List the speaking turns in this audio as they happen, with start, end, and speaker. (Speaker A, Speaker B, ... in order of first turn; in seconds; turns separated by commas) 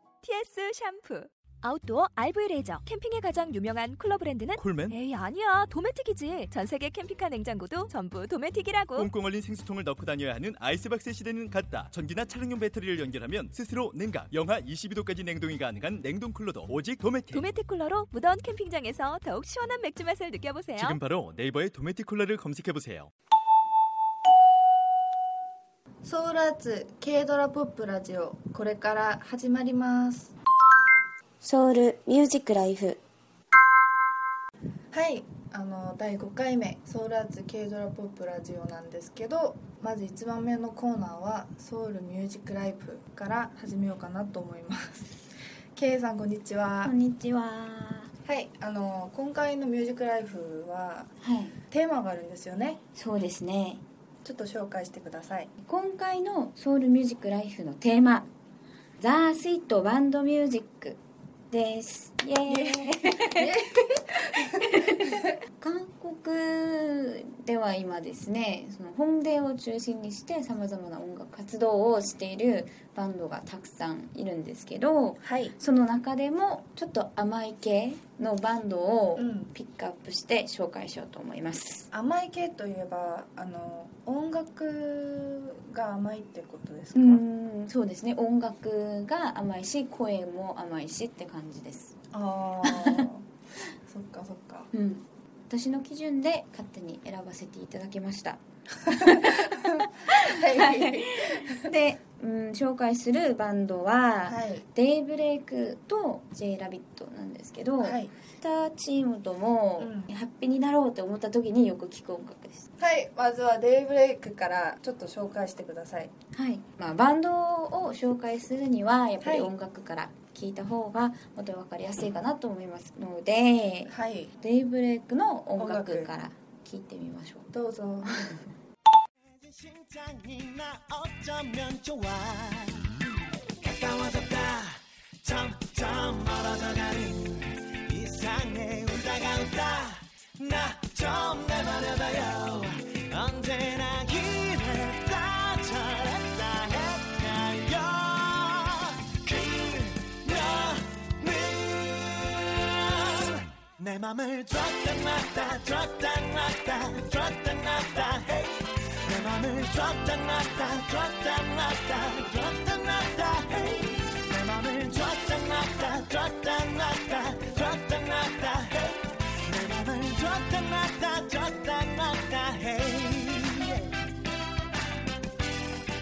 Speaker A: 0.2-9.1, Speaker B: 4.6-5.0, Speaker B: 9.0-17.5, Speaker A: 17.3-21.0, Speaker B: 20.8-23.1, Speaker C: 26.0-30.4, Speaker D: 31.4-33.0, Speaker C: 34.9-45.2, Speaker C: 45.8-46.9, Speaker D: 46.8-48.1, Speaker C: 48.2-51.1, Speaker D: 51.2-51.6, Speaker C: 51.7-52.8, Speaker D: 53.0-53.8, Speaker C: 54.2-55.5, Speaker D: 55.6-58.3, Speaker D: 59.0-61.0, Speaker D: 61.5-63.5, Speaker C: 62.5-65.3, Speaker D: 64.6-81.9, Speaker C: 75.2-75.5, Speaker C: 79.2-79.5, Speaker C: 81.9-87.2, Speaker D: 86.9-92.0, Speaker C: 92.1-93.3, Speaker D: 92.6-93.0, Speaker C: 93.8-94.7, Speaker D: 94.7-112.7, Speaker C: 98.9-101.7, Speaker C: 104.3-104.6, Speaker C: 107.8-108.1, Speaker C: 109.8-110.1, Speaker C: 112.8-116.1, Speaker D: 116.3-127.5, Speaker C: 119.2-119.5, Speaker C: 123.9-124.3, Speaker C: 125.6-126.1, Speaker C: 127.5-128.1, Speaker D: 128.1-128.4, Speaker E: 129.4-133.0, Speaker E: 133.6-173.9